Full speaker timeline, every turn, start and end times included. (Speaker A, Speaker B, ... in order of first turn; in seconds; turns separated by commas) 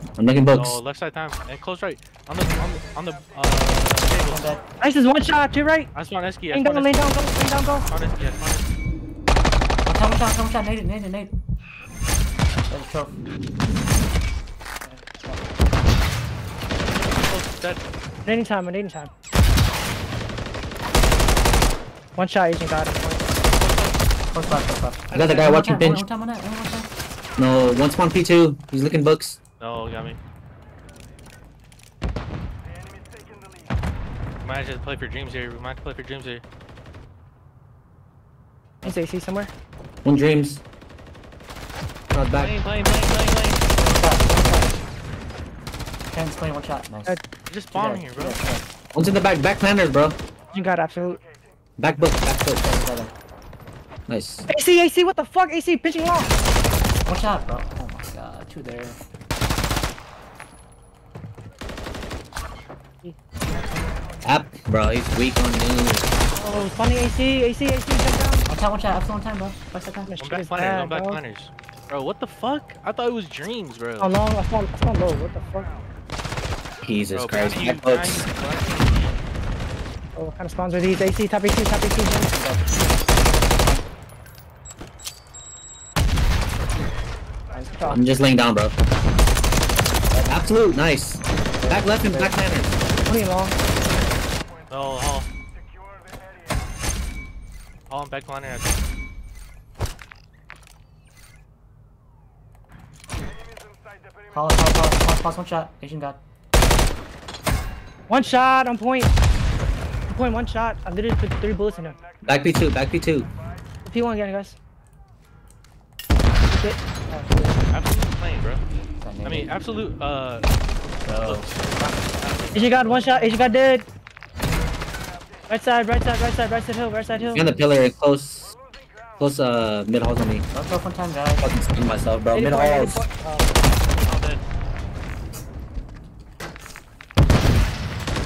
Speaker A: 0.2-0.8, Speaker B: 0.5-4.6, Speaker C: 4.2-4.6, Speaker D: 4.8-5.9, Speaker B: 5.9-7.1, Speaker D: 6.5-7.8, Speaker B: 7.8-8.7, Speaker C: 9.8-11.3, Speaker C: 12.7-13.2, Speaker B: 17.0-17.8, Speaker D: 18.2-19.1, Speaker D: 22.2-23.3, Speaker B: 23.6-23.9, Speaker C: 24.3-26.9, Speaker A: 25.1-26.0, Speaker A: 27.4-29.4, Speaker B: 29.6-30.2, Speaker B: 34.4-36.4, Speaker D: 38.8-39.5, Speaker A: 40.0-40.6, Speaker A: 42.1-42.5, Speaker B: 42.3-43.6, Speaker C: 43.8-44.8, Speaker C: 46.1-47.2, Speaker B: 47.5-48.4, Speaker C: 47.7-48.7, Speaker A: 48.9-50.2, Speaker D: 50.5-51.2, Speaker A: 51.8-52.6, Speaker C: 52.6-53.1, Speaker A: 54.1-54.5, Speaker D: 54.5-56.3, Speaker C: 57.0-59.0, Speaker A: 64.2-66.1, Speaker D: 66.3-68.4, Speaker C: 68.5-70.1, Speaker D: 70.0-71.2, Speaker B: 70.2-74.1, Speaker D: 74.0-75.7, Speaker A: 76.8-78.1, Speaker B: 77.1-79.2, Speaker D: 80.2-82.3, Speaker C: 82.3-82.9, Speaker C: 87.5-88.0, Speaker D: 87.7-88.0, Speaker A: 87.9-88.7, Speaker C: 90.1-90.4, Speaker A: 90.2-92.8, Speaker C: 91.6-92.3, Speaker D: 93.0-93.6, Speaker B: 94.7-95.3, Speaker B: 97.9-98.8, Speaker C: 104.3-106.2, Speaker D: 108.1-109.1, Speaker D: 110.1-112.0, Speaker A: 112.2-113.3, Speaker D: 113.8-114.6, Speaker D: 116.4-117.6, Speaker B: 117.7-118.6, Speaker C: 119.0-119.6, Speaker B: 119.2-120.5, Speaker C: 121.0-121.5, Speaker B: 121.2-123.0, Speaker C: 122.5-123.4, Speaker D: 122.5-123.8, Speaker D: 125.5-127.4, Speaker C: 127.1-127.8, Speaker A: 127.3-128.6, Speaker A: 129.2-130.4, Speaker C: 130.5-131.5, Speaker A: 131.4-133.1, Speaker D: 132.3-133.5, Speaker B: 134.0-134.4